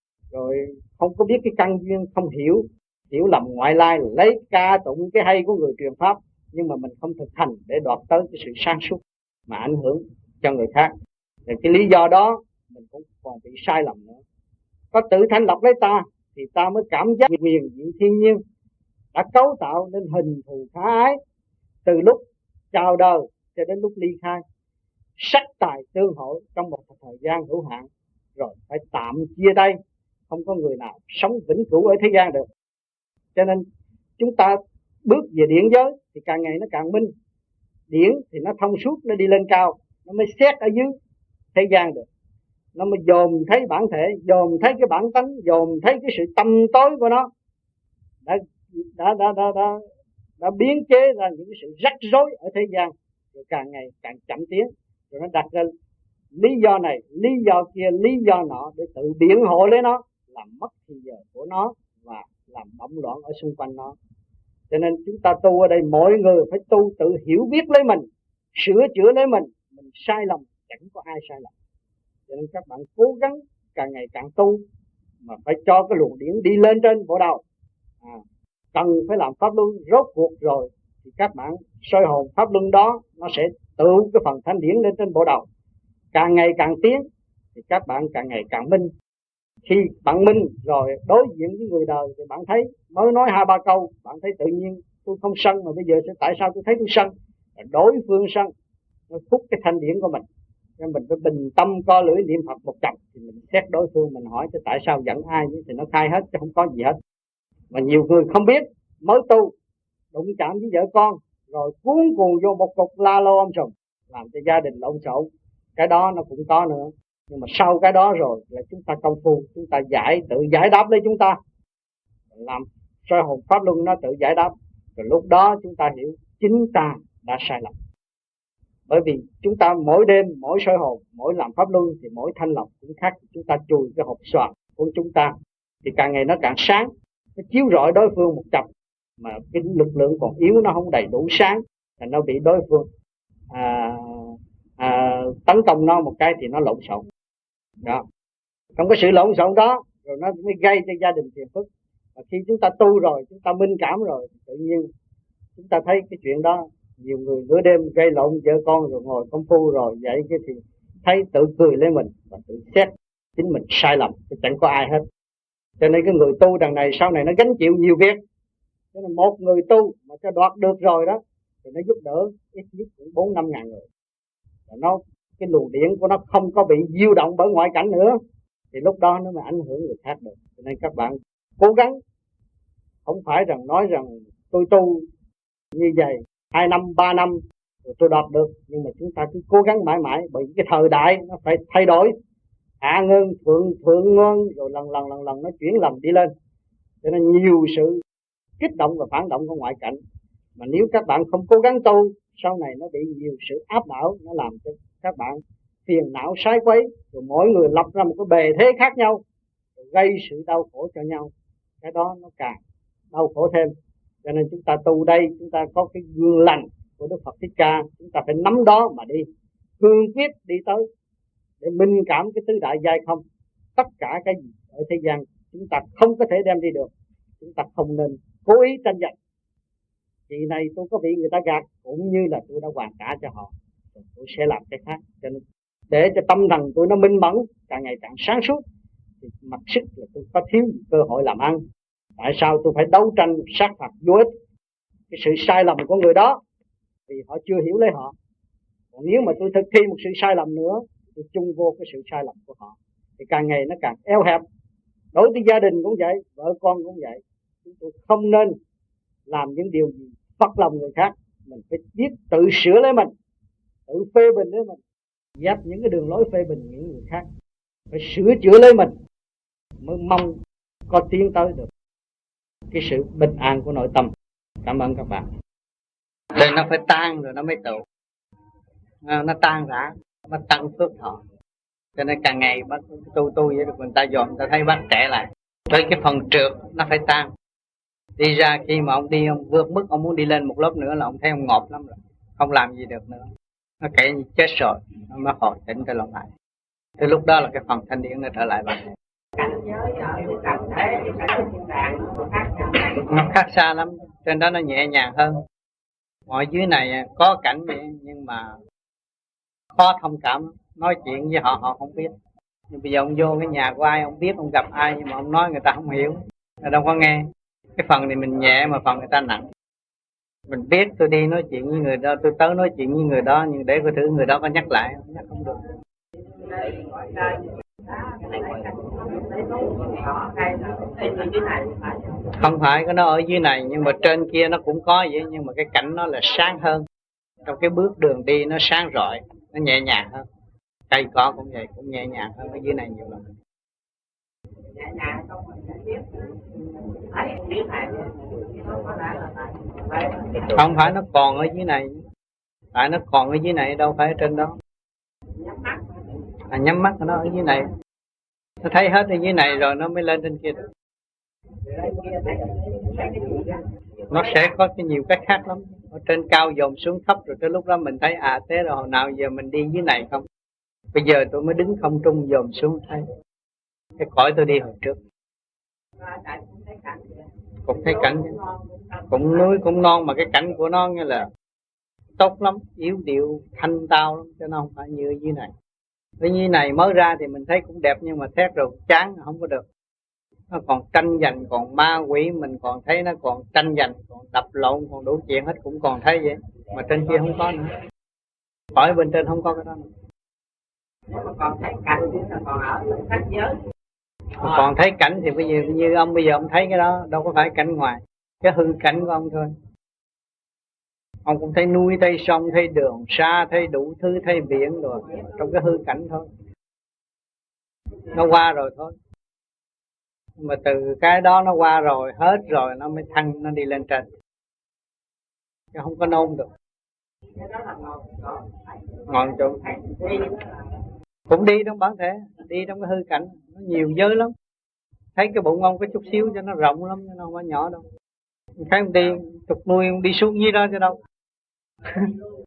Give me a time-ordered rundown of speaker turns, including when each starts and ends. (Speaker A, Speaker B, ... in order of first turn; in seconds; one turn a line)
Speaker A: 0.3-10.9
Speaker A: 11.5-14.2
Speaker A: 14.9-18.4
Speaker A: 19.1-21.2
Speaker A: 21.9-24.4
Speaker A: 25.2-29.8
Speaker A: 30.3-32.5
Speaker A: 33.4-33.6
Speaker A: 34.2-37.1
Speaker A: 37.9-40.9
Speaker A: 41.5-42.1
Speaker A: 42.8-47.3
Speaker A: 48.2-49.8
Speaker A: 50.4-55.7
Speaker A: 56.4-64.0
Speaker A: 64.7-71.5
Speaker A: 72.3-74.6
Speaker A: 75.2-77.4
Speaker A: 78.7-85.5
Speaker A: 86.1-88.9
Speaker A: 89.7-98.5
Speaker A: 99.1-100.2
Speaker A: 100.8-107.0
Speaker A: 107.7-109.5
Speaker A: 110.1-121.4
Speaker A: 122.3-127.7
Speaker A: 128.9-138.7
Speaker A: 139.2-142.9
Speaker A: 143.5-147.0
Speaker A: 148.8-154.9
Speaker A: 155.6-165.0
Speaker A: 165.8-168.2
Speaker A: 168.9-173.8
Speaker A: 174.7-178.2
Speaker A: 178.7-182.0
Speaker A: 183.1-185.1
Speaker A: 185.8-192.1
Speaker A: 192.8-196.3
Speaker A: 197.0-198.0
Speaker A: 198.6-200.0
Speaker A: 200.6-209.2
Speaker A: 209.8-211.3
Speaker A: 211.8-212.6
Speaker A: 213.1-213.7
Speaker A: 214.2-219.3
Speaker A: 219.8-220.8
Speaker A: 221.6-223.2
Speaker A: 223.8-229.2
Speaker A: 230.3-238.6
Speaker A: 239.2-241.6
Speaker A: 242.2-244.3
Speaker A: 245.1-246.4
Speaker A: 247.1-248.1
Speaker A: 248.9-254.4
Speaker A: 255.1-258.6
Speaker A: 259.3-263.1
Speaker A: 263.9-264.8
Speaker A: 265.4-267.3
Speaker A: 267.9-268.9
Speaker A: 269.8-270.4
Speaker A: 270.9-271.7
Speaker A: 272.7-274.1
Speaker A: 274.6-275.3
Speaker A: 276.4-277.8
Speaker A: 279.0-281.2
Speaker A: 282.0-287.3
Speaker A: 288.2-293.3
Speaker A: 293.8-296.3
Speaker A: 297.0-298.9
Speaker B: 299.4-303.1
Speaker A: 303.0-305.4
Speaker A: 306.3-308.6
Speaker A: 309.8-312.1
Speaker A: 312.7-317.2
Speaker A: 317.8-319.4
Speaker A: 320.5-325.6
Speaker B: 326.4-332.2
Speaker A: 332.4-336.9
Speaker A: 337.4-340.2
Speaker A: 340.9-343.3
Speaker B: 344.7-346.2
Speaker B: 346.9-350.8
Speaker A: 350.5-352.0
Speaker A: 352.7-354.6
Speaker B: 355.4-356.0
Speaker A: 356.5-357.7
Speaker A: 358.6-360.6
Speaker B: 361.7-363.7
Speaker A: 364.1-370.2
Speaker A: 370.9-373.1
Speaker A: 374.0-375.0
Speaker B: 376.0-377.2
Speaker A: 377.7-378.3
Speaker B: 377.9-379.0
Speaker A: 379.1-381.3
Speaker A: 382.2-385.5
Speaker A: 386.2-389.6
Speaker A: 390.5-397.7
Speaker A: 398.8-399.9
Speaker B: 401.1-403.6
Speaker A: 404.4-409.5
Speaker A: 411.2-416.3
Speaker A: 418.1-418.9
Speaker A: 420.4-424.1
Speaker A: 425.7-426.5
Speaker B: 427.4-429.1
Speaker A: 429.1-429.6
Speaker B: 429.6-430.4
Speaker A: 431.3-434.3
Speaker A: 435.2-437.8
Speaker A: 438.6-441.0
Speaker A: 441.9-442.1